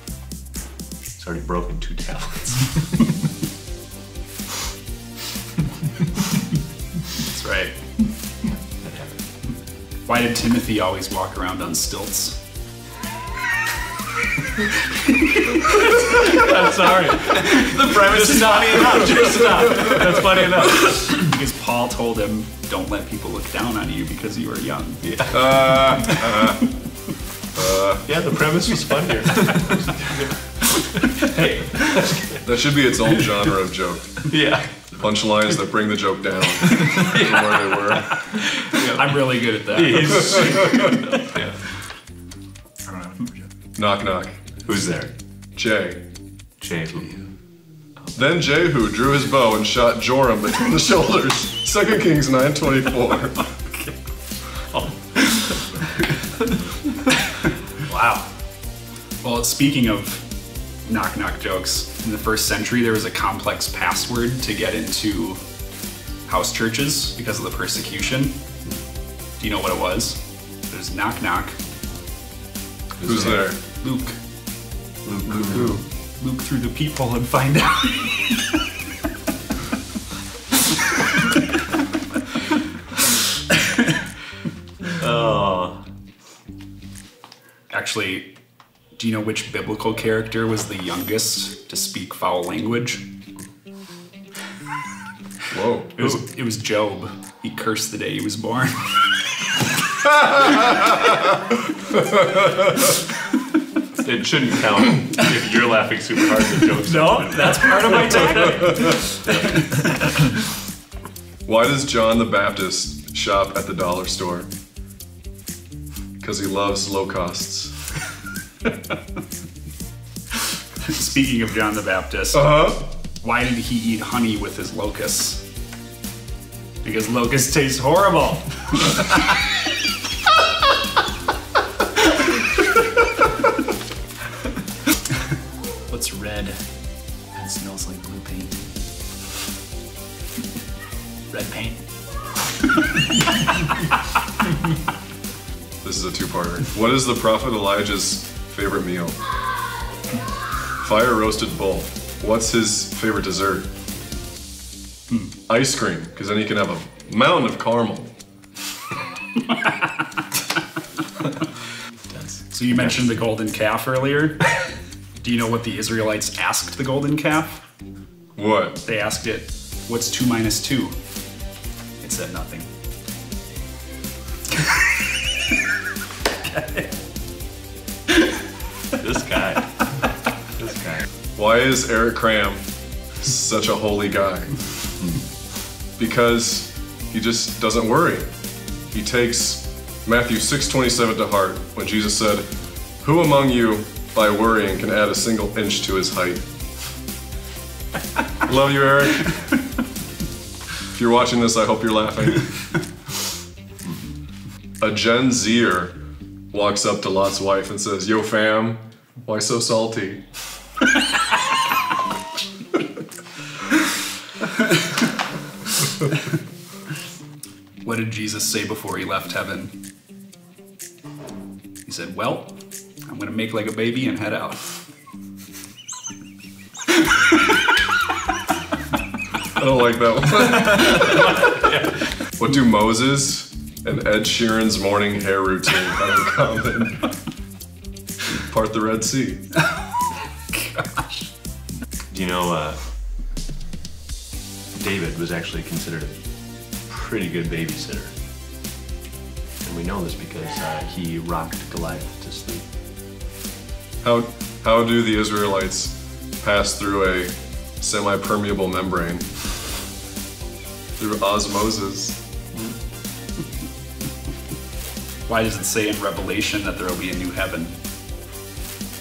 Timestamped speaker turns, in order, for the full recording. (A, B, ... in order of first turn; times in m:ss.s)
0:01.2-0:02.9 A
0:07.2-0:07.7 B
0:08.8-0:09.2 A
0:10.1-0:12.4 B
0:15.5-0:21.1 A
0:17.9-0:19.0 C
0:19.1-0:20.0 D
0:21.0-0:26.4 B
0:25.0-0:26.0 A
0:25.3-0:26.7 D
0:27.6-0:28.0 D
0:28.0-0:32.3 A
0:32.4-0:34.3 D
0:34.2-0:35.0 A
0:35.0-0:38.4 D
0:36.7-0:41.6 A
0:38.7-0:41.0 B
0:40.4-0:40.8 D
0:42.9-0:43.5 C
0:43.8-0:44.6 D
0:44.6-0:45.1 A
0:45.6-0:46.0 D
0:46.6-0:47.2 A
0:48.1-0:53.5 D
0:57.9-0:58.3 B
0:59.2-1:00.3 B
1:00.8-1:05.4 B
1:06.2-1:08.4 B
1:09.4-1:11.6 B
1:13.0-1:13.5 A
1:13.0-1:13.6 D
1:13.8-1:14.2 B
1:15.0-1:15.8 A
1:15.4-1:18.5 B
1:15.5-1:15.8 D
1:25.0-1:25.8 A
1:27.7-1:28.3 B
1:29.0-1:33.0 B
1:35.5-1:36.0 D
1:35.9-1:39.2 B
1:42.0-1:42.9 D
1:44.0-1:48.2 A
1:46.8-1:49.2 B
1:49.0-1:49.9 A
1:51.4-1:54.5 D
1:56.2-1:57.7 D
2:00.8-2:05.4 B
2:02.3-2:02.8 D
2:06.8-2:09.1 B
2:15.9-2:16.6 C
2:17.3-2:18.6 C
2:21.3-2:21.8 C
2:25.8-2:29.2 D
2:30.8-2:33.7 D
2:35.5-2:38.1 D
2:42.1-2:43.0 C
2:42.5-2:44.5 B
2:45.2-2:47.6 B
2:48.4-2:48.8 D
2:48.8-2:51.0 B
2:52.0-2:52.7 B
2:56.5-2:56.9 B
2:59.0-2:59.9 A
3:00.6-3:01.1 A
3:01.4-3:02.6 D
3:03.2-3:04.6 D
3:06.0-3:08.3 D
3:08.9-3:12.5 D
3:13.0-3:16.4 D
3:18.4-3:19.6 D
3:20.9-3:22.7 D
3:24.8-3:26.0 D
3:26.5-3:30.2 D
3:37.8-3:39.8 B
3:41.8-3:44.9 B
3:49.6-3:51.4 D
3:52.3-3:57.1 D
3:58.5-3:59.4 D
4:00.5-4:01.3 B
4:02.1-4:02.8 A
4:04.8-4:06.2 A
4:06.8-4:08.1 A
4:09.6-4:12.6 A
4:14.0-4:19.2 D
4:21.0-4:22.2 D
4:25.3-4:27.8 B